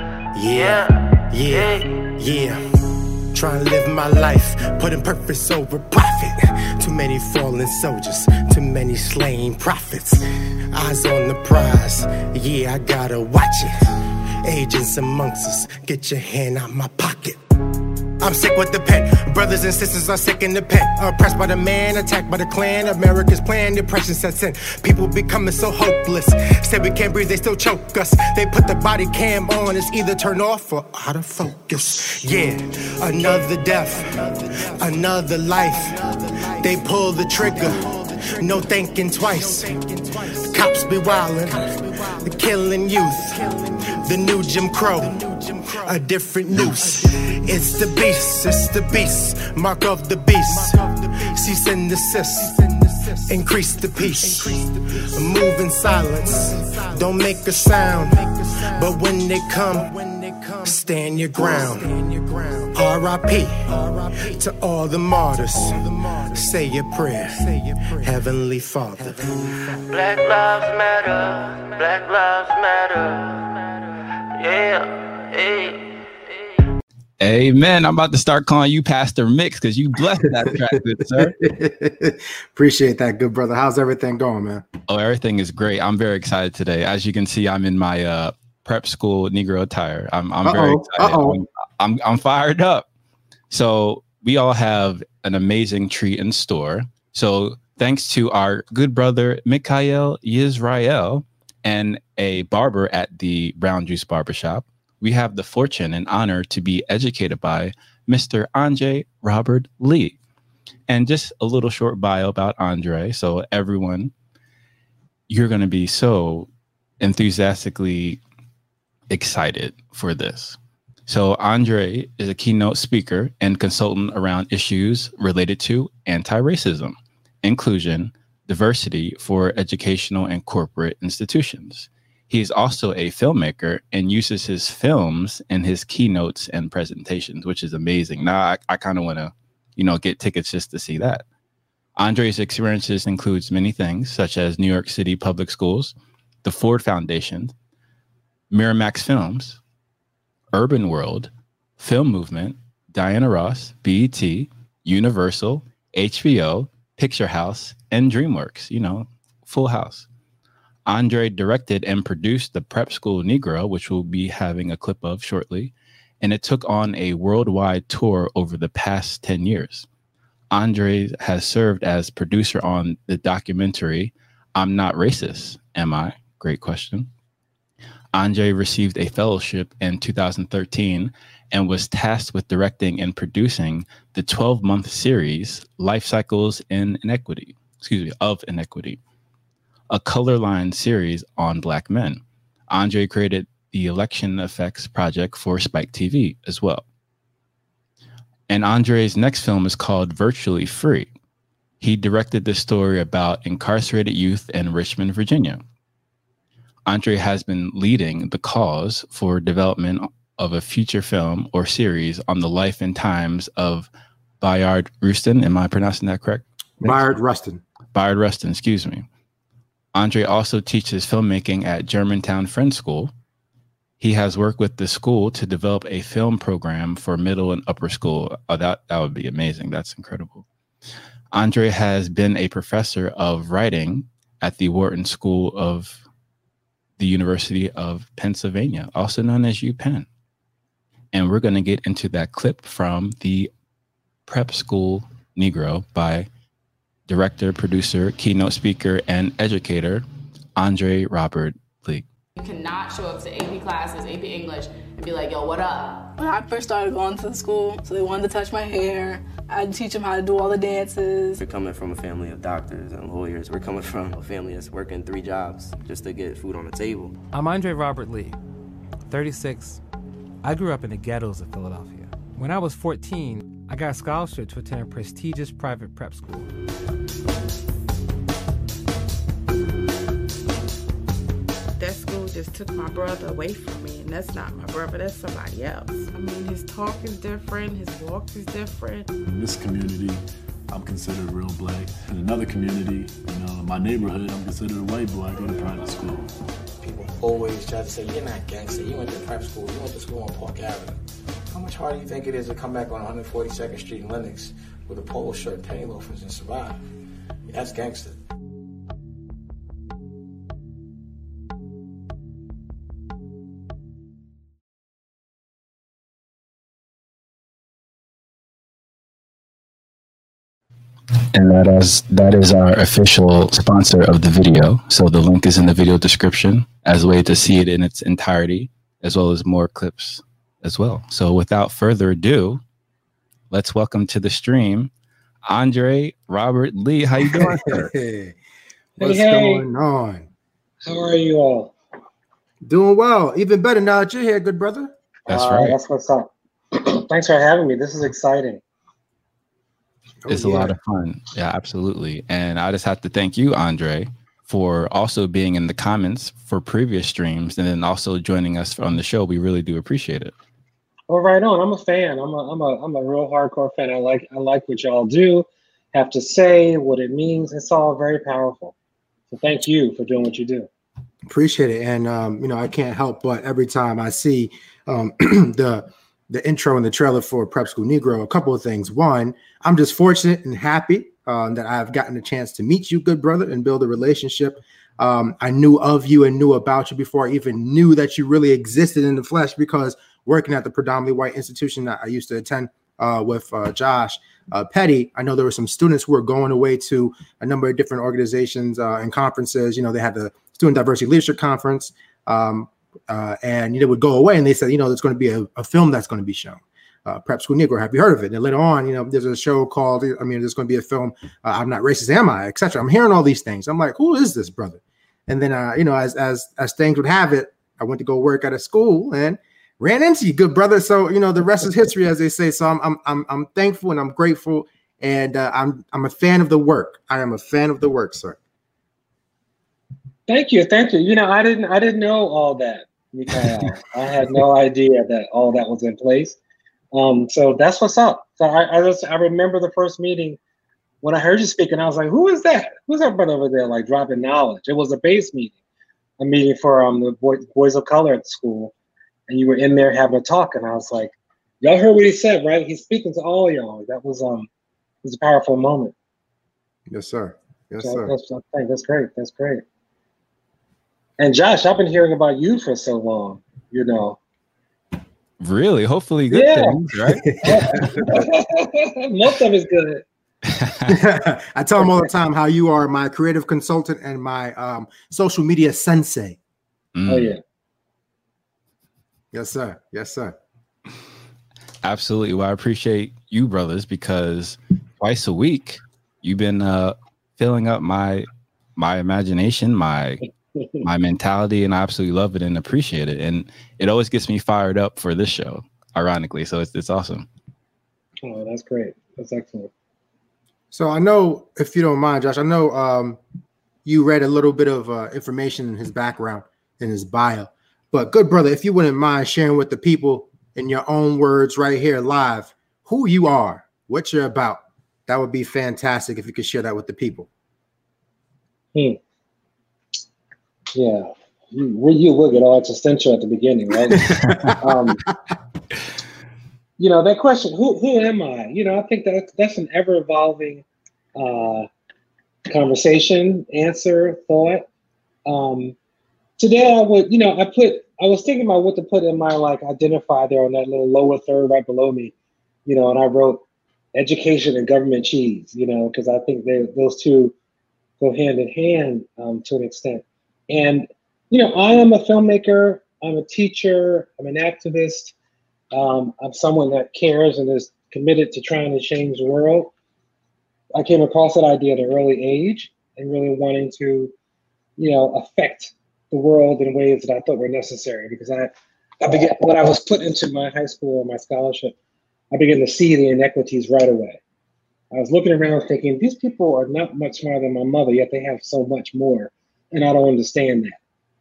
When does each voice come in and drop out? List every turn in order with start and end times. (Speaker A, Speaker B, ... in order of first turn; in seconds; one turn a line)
Speaker A: 0.4-2.6
Speaker B: 0.5-2.1
Speaker A: 3.3-10.2
Speaker A: 10.7-13.8
Speaker A: 14.4-17.4
Speaker A: 18.2-69.3
Speaker B: 69.9-76.7
Speaker C: 77.2-81.4
Speaker D: 81.1-84.7
Speaker C: 84.9-92.9
Speaker D: 90.4-91.4
Speaker C: 93.5-110.2
Speaker C: 110.9-114.1
Speaker C: 115.3-116.5
Speaker C: 117.0-118.2
Speaker C: 119.1-141.2
Speaker C: 142.0-147.5
Speaker C: 148.5-149.6
Speaker C: 150.5-160.1
Speaker C: 160.8-169.9
Speaker C: 170.5-177.1
Speaker C: 178.1-189.0
Speaker C: 189.9-196.8
Speaker C: 198.5-201.1
Speaker C: 201.8-205.6
Speaker C: 206.9-217.0
Speaker D: 216.8-217.6
Speaker C: 217.9-219.1
Speaker C: 219.9-223.1
Speaker C: 224.0-230.4
Speaker C: 231.3-236.0
Speaker C: 237.0-240.1
Speaker C: 241.1-243.5
Speaker C: 244.3-246.3
Speaker C: 247.1-250.0
Speaker C: 250.6-252.0
Speaker E: 252.4-256.1
Speaker F: 256.1-261.4
Speaker G: 261.4-267.1
Speaker H: 267.3-268.4
Speaker H: 269.1-269.8
Speaker H: 270.4-276.5
Speaker I: 281.8-289.1
Speaker J: 289.3-296.3
Speaker K: 296.8-301.0
Speaker K: 301.5-306.8
Speaker K: 307.5-308.2
Speaker C: 321.3-332.6
Speaker C: 333.5-334.9
Speaker C: 335.4-337.9
Speaker D: 337.3-338.3
Speaker L: 339.0-339.6
Speaker D: 339.0-340.3
Speaker L: 340.8-341.7
Speaker D: 342.6-344.9
Speaker C: 345.3-345.8
Speaker L: 345.3-348.6
Speaker D: 350.2-350.8
Speaker C: 350.3-360.3
Speaker L: 361.1-368.7
Speaker L: 369.3-370.7
Speaker D: 371.3-428.4
Speaker L: 430.3-436.4
Speaker L: 436.9-440.4
Speaker L: 441.0-445.5
Speaker L: 446.2-448.7
Speaker L: 449.3-454.5
Speaker L: 455.0-455.9
Speaker D: 456.9-458.1
Speaker L: 457.8-459.6
Speaker L: 461.2-464.2
Speaker C: 465.4-467.9
Speaker L: 466.3-466.8
Speaker D: 467.1-468.2
Speaker L: 467.4-470.0
Speaker C: 470.5-470.9
Speaker D: 470.9-476.4
Speaker C: 476.9-477.3
Speaker L: 477.1-477.4
Speaker D: 479.3-480.3
Speaker C: 481.8-490.2
Speaker L: 490.6-490.8
Speaker C: 490.8-497.3
Speaker L: 498.2-499.7
Speaker D: 500.7-503.2
Speaker D: 503.8-517.3
Speaker L: 520.7-524.0
Speaker D: 524.1-524.5
Speaker L: 524.6-525.0
Speaker L: 526.8-530.6
Speaker L: 531.1-531.7
Speaker L: 532.5-534.6
Speaker L: 535.2-535.7
Speaker L: 536.4-542.1
Speaker L: 542.6-543.4
Speaker L: 543.9-547.3
Speaker L: 548.0-555.1
Speaker L: 555.7-559.7
Speaker L: 560.7-564.1
Speaker L: 564.8-571.7
Speaker L: 572.3-574.2
Speaker L: 574.9-580.8